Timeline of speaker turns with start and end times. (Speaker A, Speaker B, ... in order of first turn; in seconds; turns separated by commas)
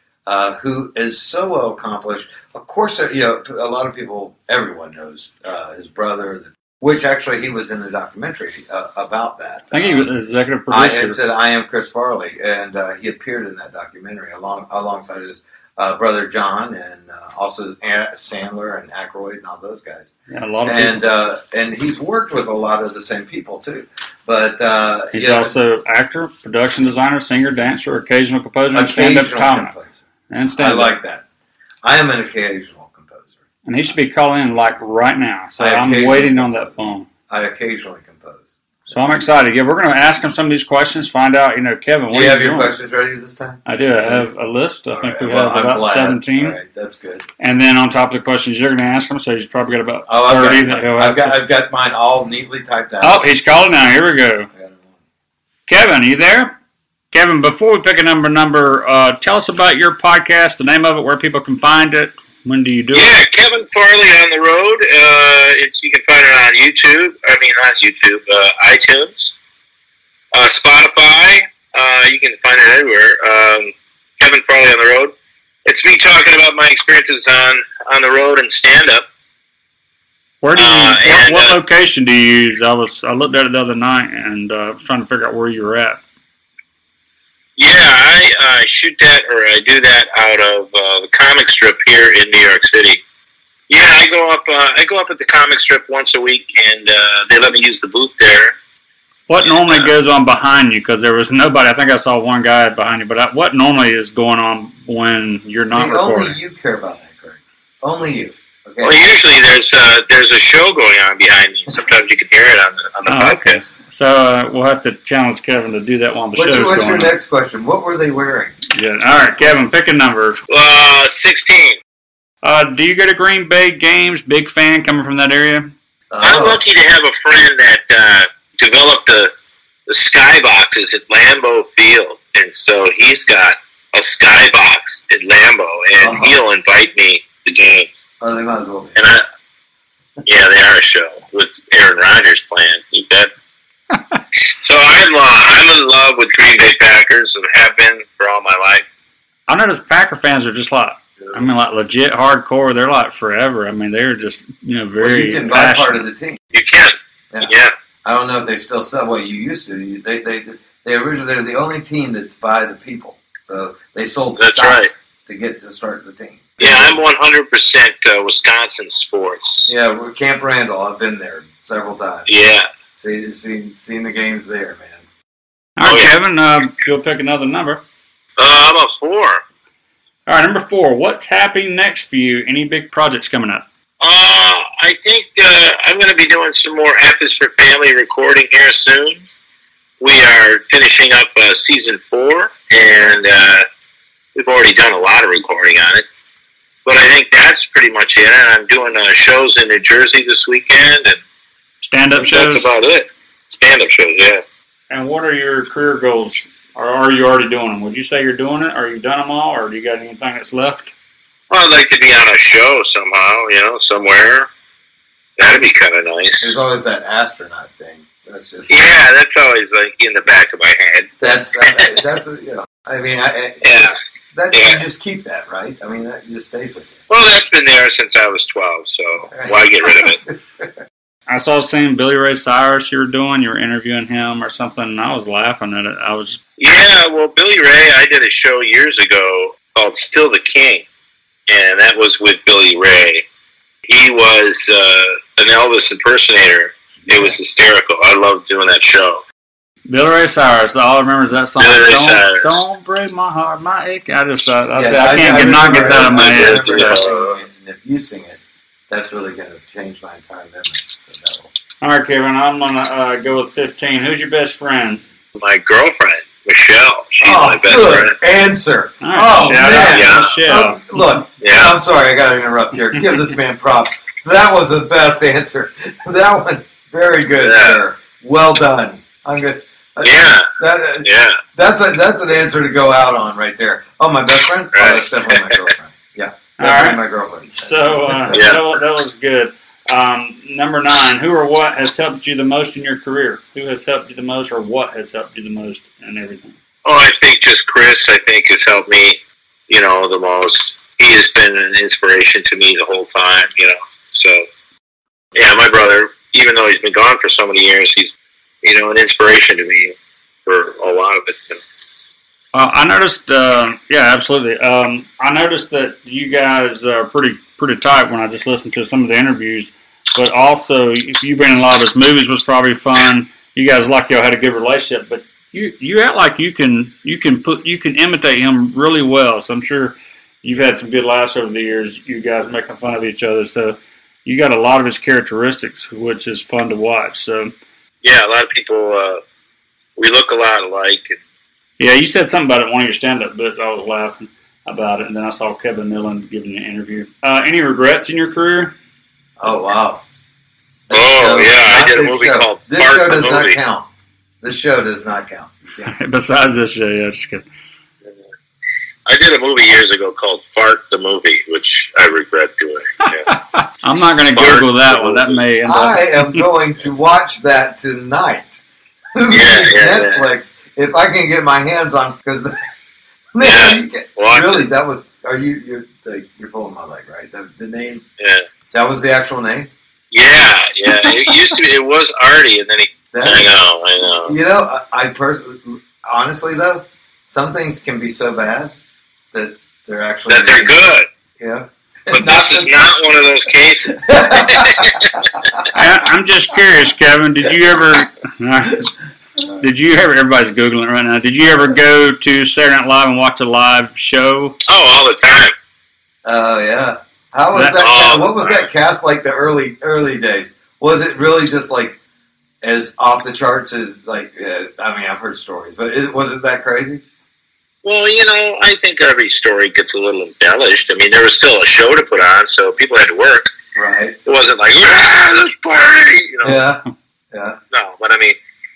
Speaker A: 0.3-10.1, Speaker B: 9.7-11.2, Speaker A: 10.7-20.1, Speaker B: 20.3-21.0, Speaker A: 20.6-25.6, Speaker B: 25.1-29.7, Speaker A: 28.7-29.9, Speaker B: 30.3-30.9, Speaker A: 30.6-31.2, Speaker A: 31.8-33.3, Speaker B: 33.7-37.1, Speaker A: 35.6-39.2, Speaker B: 38.9-42.7, Speaker A: 42.1-44.3, Speaker B: 43.6-46.6, Speaker A: 44.9-47.2, Speaker B: 47.4-51.4, Speaker A: 50.1-53.3, Speaker B: 53.0-54.5, Speaker A: 54.5-55.0, Speaker B: 55.7-56.5, Speaker B: 57.1-63.1, Speaker C: 62.9-69.3, Speaker C: 70.3-75.1, Speaker C: 75.7-79.0, Speaker B: 80.4-86.0, Speaker C: 80.5-81.6, Speaker C: 87.6-93.0, Speaker C: 93.7-98.5, Speaker B: 99.3-106.4, Speaker C: 99.4-99.9, Speaker A: 105.6-109.1, Speaker C: 108.8-113.6, Speaker B: 113.1-117.1, Speaker A: 116.3-118.6, Speaker B: 118.7-120.4, Speaker C: 120.5-121.8, Speaker B: 122.4-125.7, Speaker A: 126.1-126.6, Speaker C: 126.2-129.3, Speaker C: 129.9-137.9, Speaker A: 136.0-136.4, Speaker A: 138.2-139.0, Speaker C: 139.0-139.2, Speaker C: 140.2-143.3, Speaker C: 144.6-148.9, Speaker B: 149.5-156.1, Speaker A: 155.0-156.4, Speaker C: 156.5-157.7, Speaker A: 158.1-167.0, Speaker C: 164.4-164.9, Speaker C: 166.6-169.7, Speaker A: 169.7-172.3, Speaker C: 172.3-172.7, Speaker A: 172.9-175.1, Speaker B: 175.8-177.8, Speaker C: 175.8-176.2, Speaker C: 178.4-179.4, Speaker B: 180.3-183.7, Speaker C: 184.0-189.2, Speaker C: 190.0-193.7, Speaker C: 194.4-196.1, Speaker C: 196.9-201.2, Speaker B: 201.8-202.7, Speaker C: 202.2-204.4, Speaker B: 204.9-210.9, Speaker C: 211.5-214.5, Speaker C: 215.4-216.6, Speaker A: 216.4-218.9, Speaker C: 218.7-221.1, Speaker A: 221.2-227.0, Speaker C: 223.6-223.9, Speaker C: 224.5-224.8, Speaker C: 227.1-230.2, Speaker A: 229.3-230.7, Speaker B: 231.3-236.4, Speaker C: 236.6-240.8, Speaker C: 241.5-243.2, Speaker C: 243.9-249.2, Speaker A: 247.1-247.4, Speaker B: 249.9-257.0, Speaker C: 251.6-252.6, Speaker A: 254.7-261.5, Speaker C: 255.7-257.4, Speaker B: 261.8-265.0, Speaker C: 265.4-268.2, Speaker A: 267.2-288.5, Speaker B: 269.0-271.0, Speaker C: 269.9-270.3, Speaker C: 271.4-271.8, Speaker C: 277.4-277.8, Speaker C: 280.0-280.5, Speaker C: 281.0-281.4, Speaker C: 284.7-285.6, Speaker B: 286.6-296.6, Speaker C: 288.3-288.6, Speaker C: 296.9-299.2, Speaker C: 299.7-304.4, Speaker C: 305.4-309.9, Speaker C: 310.5-311.6, Speaker B: 312.5-337.5, Speaker C: 338.0-339.2, Speaker C: 340.0-341.2, Speaker B: 341.8-348.7, Speaker A: 349.4-350.0, Speaker A: 350.9-353.9, Speaker C: 350.9-353.6, Speaker A: 354.4-356.0, Speaker B: 355.8-357.5, Speaker C: 359.1-363.3, Speaker B: 363.1-366.4, Speaker C: 364.3-365.4, Speaker A: 365.6-368.6, Speaker A: 369.1-372.6, Speaker C: 369.3-370.3, Speaker A: 373.3-378.0, Speaker C: 373.4-374.7, Speaker A: 378.7-379.7, Speaker C: 380.1-384.4, Speaker B: 380.9-381.2, Speaker A: 383.1-388.7, Speaker A: 389.3-392.9, Speaker C: 390.3-391.1, Speaker C: 392.1-395.0, Speaker A: 393.8-395.1, Speaker B: 395.7-398.9, Speaker B: 399.6-404.6, Speaker C: 404.7-405.5, Speaker A: 406.2-412.0, Speaker B: 407.5-407.8, Speaker C: 407.8-408.7, Speaker A: 412.6-417.0, Speaker C: 417.8-423.5, Speaker A: 423.8-424.2, Speaker C: 424.2-426.6, Speaker A: 426.4-427.6, Speaker C: 427.7-428.4